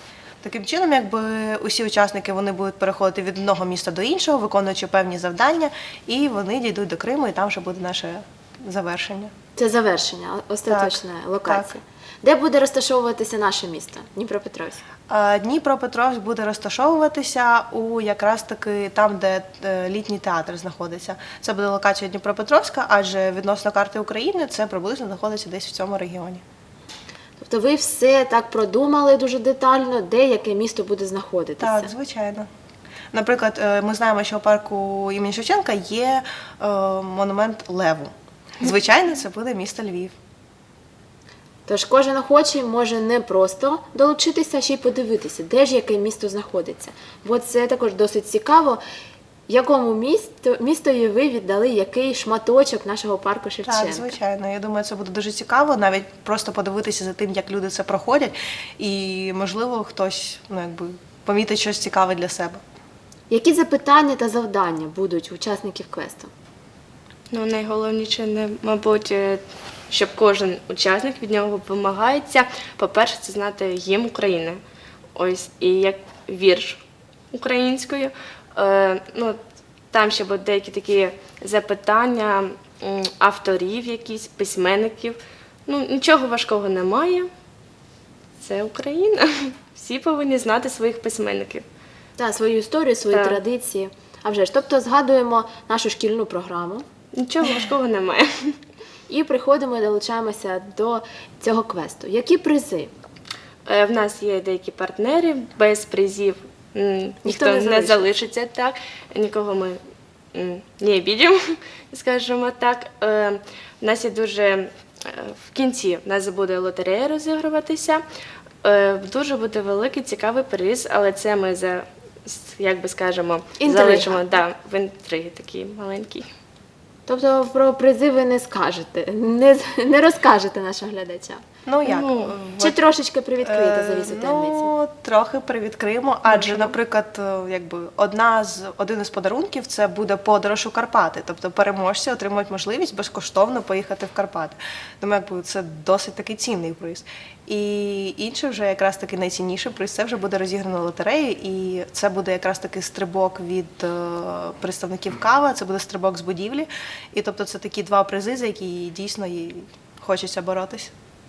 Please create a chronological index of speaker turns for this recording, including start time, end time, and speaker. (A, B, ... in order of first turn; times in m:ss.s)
0:00.4-0:09.3 A
0:09.6-0:14.8 B
0:10.7-0:11.7 A
0:15.1-0:26.4 A
0:27.4-0:31.9 B
0:31.6-0:32.5 A
0:33.1-0:40.1 A
0:41.7-0:48.8 B
0:49.5-0:54.1 B
0:53.7-1:02.6 A
1:03.3-1:06.3 B
1:07.3-1:14.6 C
1:15.2-1:19.4 C
1:19.9-1:27.3 C
1:28.4-1:31.6 C
1:32.2-1:36.8 B
1:33.1-1:33.4 C
1:37.2-1:38.6 C
1:39.1-1:42.9 B
1:43.7-1:49.8 C
1:47.2-1:48.1 B
1:50.3-1:58.0 C
1:58.6-2:06.3 C
2:03.6-2:04.4 B
2:07.1-2:11.4 B
2:11.7-2:12.8 A
2:11.8-2:12.4 C
2:12.6-2:14.7 B
2:13.4-2:40.9 A